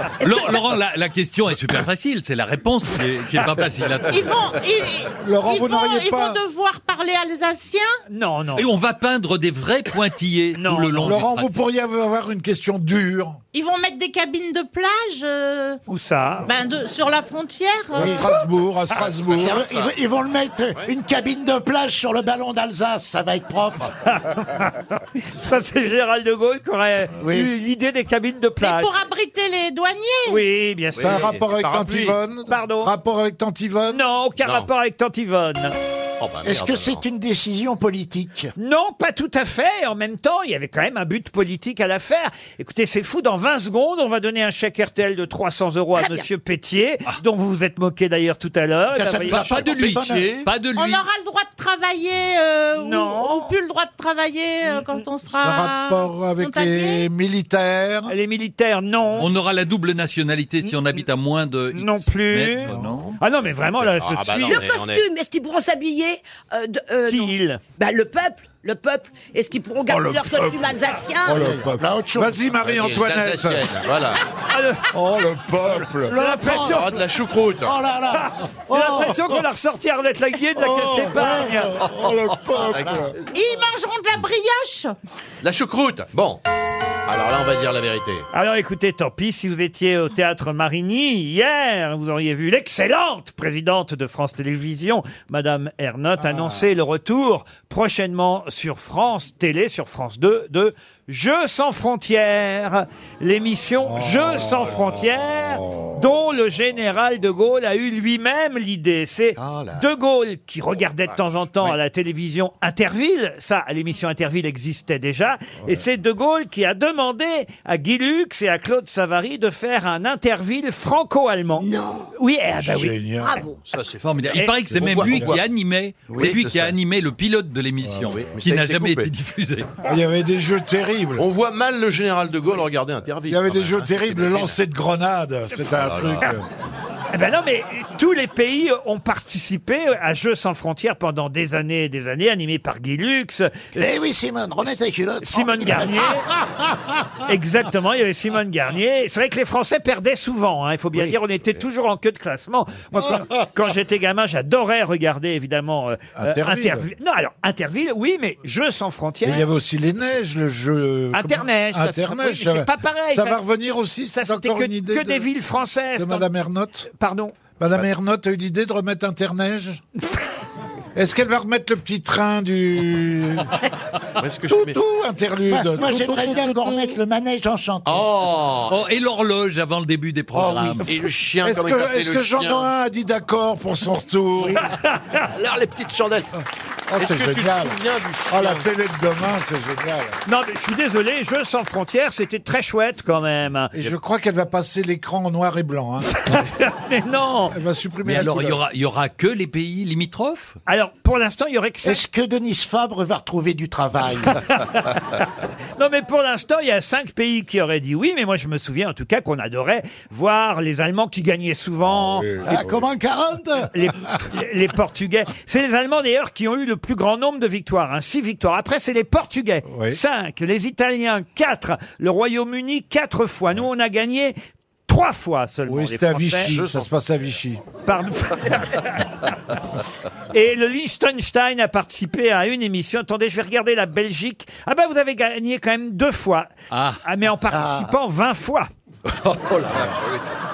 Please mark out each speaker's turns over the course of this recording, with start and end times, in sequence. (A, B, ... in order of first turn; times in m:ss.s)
0:00.2-0:04.3 A
0:04.1-0:07.9 B
0:05.2-0:06.4 C
0:08.1-0:08.6 D
0:08.6-0:11.6 A
0:10.6-0:11.2 D
0:11.0-0:13.4 C
0:13.5-0:15.8 B
0:15.9-0:16.5 D
0:16.4-0:18.2 B
0:18.0-0:19.6 C
0:18.0-0:18.3 E
0:18.9-0:19.9 F
0:19.3-0:23.9 E
0:24.1-0:28.9 D
0:27.2-0:27.5 E
0:28.6-0:30.4 B
0:30.3-0:31.3 D
0:31.0-0:32.2 F
0:31.0-0:34.0 C
0:32.5-0:32.9 D
0:33.9-0:35.8 D
0:34.4-0:34.7 F
0:36.2-0:37.0 F
0:36.4-0:38.5 E
0:38.6-0:49.5 D
0:49.0-0:50.3 E
0:49.2-0:50.0 C
0:49.3-0:51.0 A
0:50.0-0:50.4 F
0:50.7-0:57.0 B
0:52.8-0:53.5 D
0:55.4-0:58.1 C
0:58.1-0:59.3 D
0:59.2-1:03.2 A
1:01.7-1:04.7 D
1:03.8-1:05.0 F
1:04.5-1:11.4 G
1:07.0-1:07.6 D
1:09.9-1:13.8 C
1:11.3-1:12.4 E
1:12.6-1:14.2 F
1:14.5-1:14.8 D
1:14.9-1:16.3 C
1:16.0-1:16.8 E
1:16.1-1:16.9 D
1:16.6-1:17.7 F
1:17.6-1:19.1 E
1:18.7-1:21.8 D
1:20.6-1:23.1 C
1:22.5-1:23.0 E
1:22.6-1:23.0 F
1:23.3-1:24.9 B
1:25.4-1:26.4 F
1:27.0-1:28.3 F
1:28.3-2:03.0 D
1:43.9-1:46.0 C
2:01.7-2:02.0 G
2:02.6-2:03.5 C
2:03.2-2:03.5 G
2:03.6-2:05.4 F
2:04.0-2:09.7 A
2:04.7-2:05.4 C
2:06.1-2:06.8 F
2:07.8-2:08.1 C
2:08.1-2:09.1 F
2:09.8-2:11.3 C
2:11.2-2:14.6 F
2:13.3-2:16.4 C
2:15.6-2:16.3 F
2:17.1-2:23.9 D
2:23.7-2:25.9 E
2:25.2-2:26.2 D
2:27.3-2:39.4 D
2:36.2-2:36.8 C
2:39.2-2:45.3 C
2:41.1-2:43.4 D
2:44.1-2:46.3 D
2:46.0-2:46.9 C
2:46.9-2:47.4 D
2:47.6-2:49.8 C
2:51.0-2:53.5 C
2:54.2-2:54.8 F
2:54.5-2:56.9 C
2:55.5-2:58.0 E
2:57.9-2:58.8 F
2:58.7-3:00.9 A
3:00.3-3:00.6 E
3:00.8-3:02.7 F
3:01.4-3:04.6 C
3:04.7-3:05.2 D
3:05.3-3:06.3 F
3:06.9-3:10.1 C
3:06.9-3:08.6 F
3:10.3-3:13.7 D
3:13.7-3:16.1 C
3:16.2-3:17.6 D
3:17.5-3:18.6 C
3:18.0-3:20.6 A
3:20.7-3:22.0 D
3:21.8-3:24.3 E
3:25.8-3:32.3 D
3:31.9-3:32.9 C
3:32.4-3:33.7 E
3:33.7-3:44.4 D
3:39.7-3:40.0 C
3:44.9-3:46.6 D
3:45.7-3:47.6 C
3:46.4-3:46.9 F
3:47.8-3:49.1 D
3:50.3-3:56.5 D
3:56.7-3:57.0 A
3:57.0-3:58.7 D
3:59.1-4:00.2 F